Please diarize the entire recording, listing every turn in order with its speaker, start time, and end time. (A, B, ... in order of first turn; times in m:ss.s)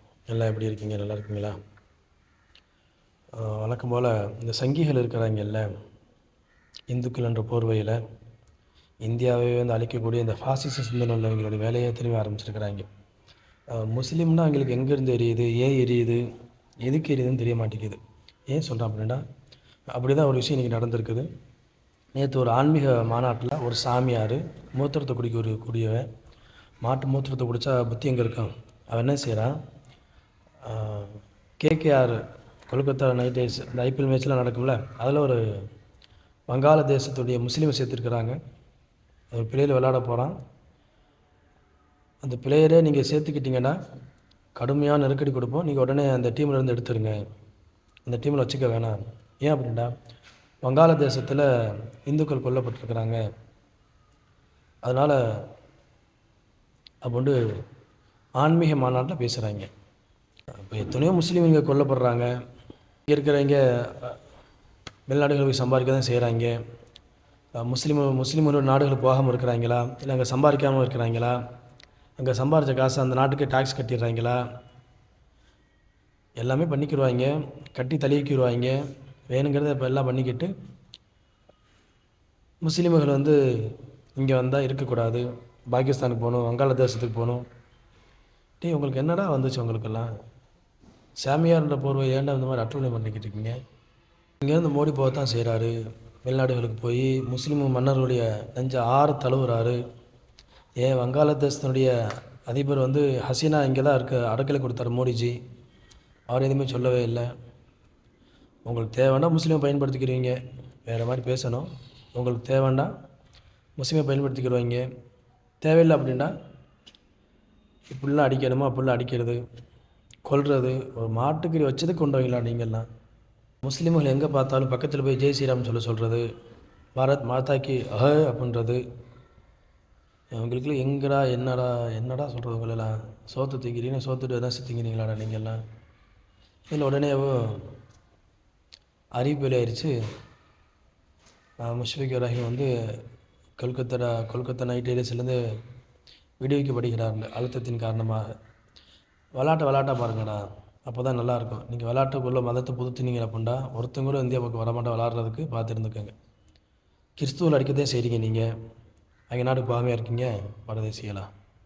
0:00.3-0:01.6 A
0:03.4-0:05.7 A
0:06.9-0:08.0 A
0:09.0-0:12.9 A
0:13.7-0:16.2 A
0:16.8-0:19.2 A
0:19.9-0:21.3 A
0:22.2-0:26.1 A
0:26.8-0:29.5 A
0:30.6-0:32.2 A
0:32.7-0:35.4 A
0:36.5-0:38.4 A
0:39.3-0:40.4 A
0:42.2-0:43.8 A
0:44.6-0:47.2 A
0:48.1-0:49.9 A
0:50.6-0:51.5 A
0:52.0-0:53.2 A
0:54.8-0:55.4 A
0:57.0-0:57.4 A
0:58.4-0:59.7 A
1:00.7-1:02.3 A
1:03.1-1:04.2 A
1:05.1-1:06.6 A
1:07.6-1:11.4 A
1:12.2-1:14.4 A
1:16.4-1:18.8 A
1:19.3-1:20.5 A
1:22.6-1:27.4 A
1:28.6-1:30.1 A
1:31.2-1:33.6 A
1:34.4-1:35.7 A
1:36.2-1:39.8 A
1:40.8-1:41.9 A
1:42.5-1:45.4 A
1:46.3-1:47.3 A
1:48.7-1:52.9 A
1:53.8-1:54.8 A
1:55.6-1:56.3 A
1:57.9-1:59.4 A
2:00.3-2:02.9 A
2:03.6-2:06.2 A
2:07.0-2:08.8 A
2:10.4-2:15.6 A
2:16.7-2:17.8 A
2:19.2-2:19.9 A
2:21.6-2:22.7 A
2:23.6-2:25.4 A
2:26.4-2:28.3 A
2:29.4-2:36.1 A
2:37.2-2:38.5 A
2:39.3-2:41.3 A